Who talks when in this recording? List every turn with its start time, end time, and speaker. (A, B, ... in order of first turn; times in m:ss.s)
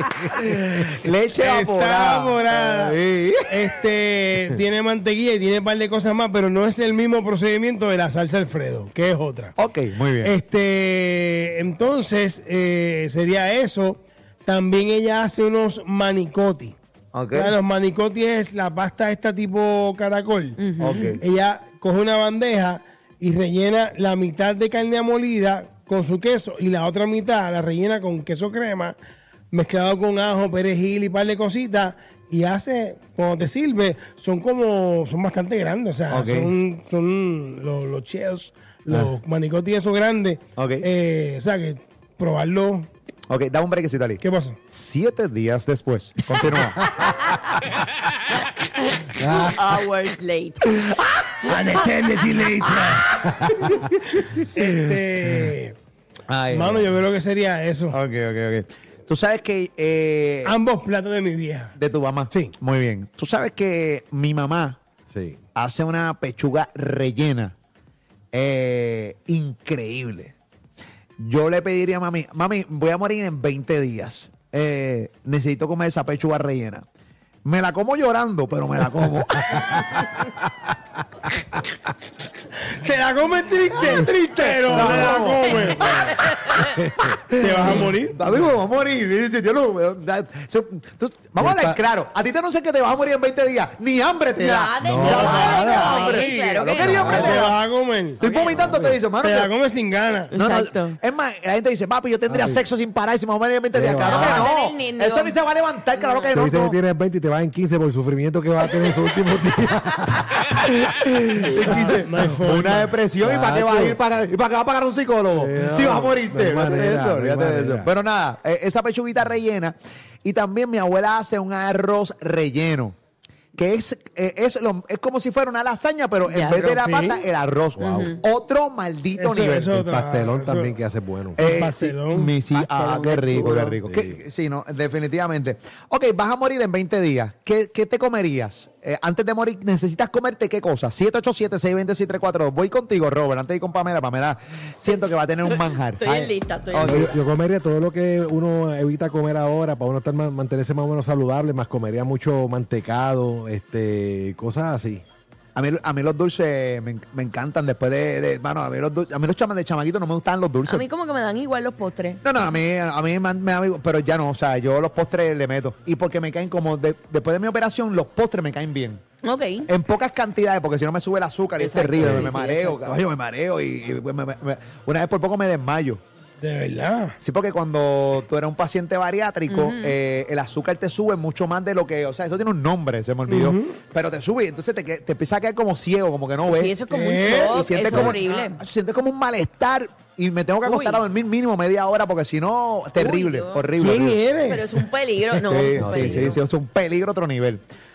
0:00.3-0:03.7 A
0:01.4-0:09.5 B
0:09.6-0:10.3 A
0:10.2-0:16.8 B
0:17.1-0:17.6 A
0:17.3-0:20.7 B
0:20.6-0:21.2 C
0:20.8-0:21.2 A
0:21.2-0:29.0 B
0:29.5-0:42.9 B
0:36.1-0:36.5 A
0:40.6-0:40.9 A
0:43.3-0:47.0 A
0:44.2-0:44.6 B
0:48.6-0:50.7 C
0:49.2-0:49.5 D
0:51.4-0:53.2 B
0:51.5-0:51.8 C
0:54.2-0:55.8 B
0:56.3-0:56.9 A
0:56.5-0:58.0 B
0:57.9-1:00.5 A
1:00.4-1:01.8 B
1:01.8-1:04.8 A
1:05.1-1:05.4 D
1:05.6-1:07.5 A
1:08.3-1:10.3 A
1:11.2-1:16.8 A
1:17.4-1:20.2 A
1:22.7-1:26.0 B
1:23.7-1:26.6 A
1:24.7-1:25.2 D
1:25.4-1:26.8 C
1:26.8-1:27.1 D
1:27.1-1:37.6 A
1:27.3-1:28.2 B
1:31.4-1:31.8 D
1:34.4-1:37.5 C
1:34.8-1:35.4 D
1:34.9-1:38.2 B
1:36.8-1:37.4 D
1:38.2-1:38.8 C
1:38.2-1:39.5 A
1:38.5-1:39.0 D
1:39.1-1:40.3 B
1:40.3-1:41.0 C
1:40.4-1:46.8 A
1:42.3-1:42.6 D
1:43.7-1:44.5 D
1:44.0-1:45.4 C
1:46.0-1:46.4 C
1:46.3-1:50.6 D
1:50.5-2:03.0 A
1:51.6-1:53.0 B
1:51.6-1:51.9 D
1:53.2-1:54.0 D
1:55.3-1:57.9 D
2:03.6-2:09.7 A
2:06.2-2:07.0 C
2:06.8-2:07.2 B
2:07.8-2:08.1 D
2:07.8-2:08.2 C
2:09.2-2:10.8 B
2:09.7-2:11.6 D
2:11.4-2:27.1 A
2:11.4-2:12.4 B
2:13.0-2:13.5 C
2:13.3-2:13.8 B
2:13.7-2:14.2 D
2:25.4-2:27.1 C
2:26.8-2:35.0 D
2:35.6-2:40.9 A
2:40.7-2:42.2 C
2:42.2-2:49.0 A
2:49.2-2:49.7 C
2:49.7-2:56.0 A
2:51.6-2:53.0 C
2:52.0-2:52.3 D
2:56.4-2:57.2 B
2:57.2-3:06.8 A
2:59.5-3:00.0 C
3:03.3-3:03.8 B
3:06.5-3:08.6 C
3:06.9-3:07.7 B
3:07.4-3:14.2 A
3:10.6-3:11.0 C
3:13.0-3:13.8 C
3:13.8-3:14.7 B
3:14.5-3:16.4 C
3:15.4-3:17.6 A
3:15.7-3:16.4 D